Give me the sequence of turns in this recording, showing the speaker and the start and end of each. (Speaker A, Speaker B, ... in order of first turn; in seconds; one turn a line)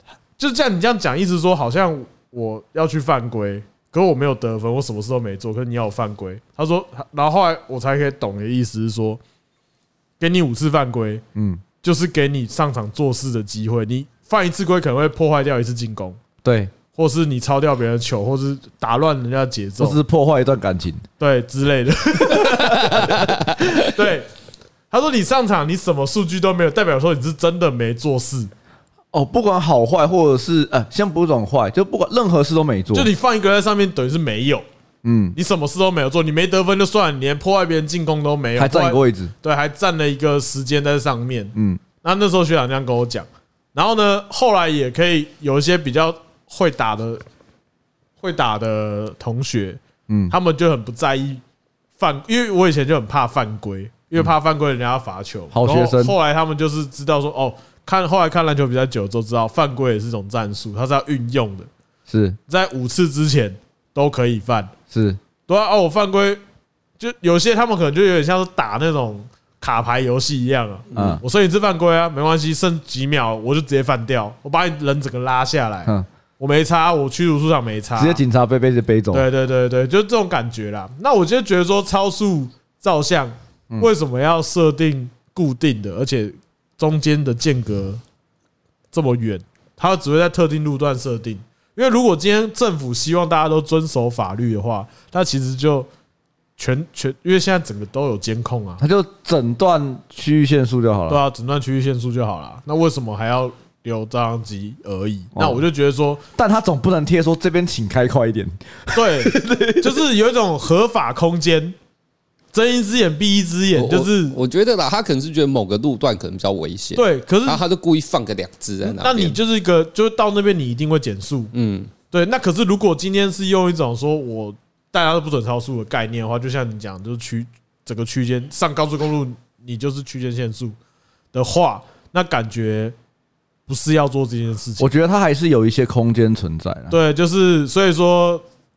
Speaker A: 0.4-9.2
Speaker A: 10.2-11.2
Speaker B: 11.3-11.6
Speaker A: 11.8-16.2
Speaker B: 16.4-16.7
Speaker A: 16.9-20.0
Speaker B: 19.8-21.0
Speaker A: 21.2-24.3
Speaker B: 22.4-23.1
Speaker A: 24.9-28.5
Speaker B: 29.1-33.1
Speaker A: 32.9-34.6
Speaker B: 35.0-35.4
Speaker A: 35.4-47.2
Speaker B: 38.6-39.3
Speaker B: 41.5-41.8
Speaker A: 48.2-51.4
Speaker B: 50.1-50.4
Speaker A: 52.0-61.7
Speaker B: 55.5-56.1
Speaker B: 62.1-62.4
Speaker A: 62.5-64.7
Speaker B: 64.9-65.2
Speaker A: 65.5-66.4
Speaker A: 67.0-78.2
Speaker B: 70.9-71.2
Speaker B: 78.0-79.3
Speaker A: 79.1-88.0
Speaker A: 88.9-95.9
Speaker A: 96.6-98.8
Speaker B: 98.8-101.2
Speaker A: 101.1-106.2
Speaker B: 105.3-105.7
Speaker B: 106.4-110.0
Speaker A: 108.9-111.8
Speaker A: 112.5-114.4
Speaker C: 113.8-119.4
Speaker A: 117.0-117.6
Speaker A: 118.8-121.5
Speaker C: 121.5-121.9
Speaker A: 122.1-130.8
Speaker A: 131.3-132.9
Speaker A: 133.7-134.9
Speaker B: 134.8-137.0
Speaker A: 136.9-138.4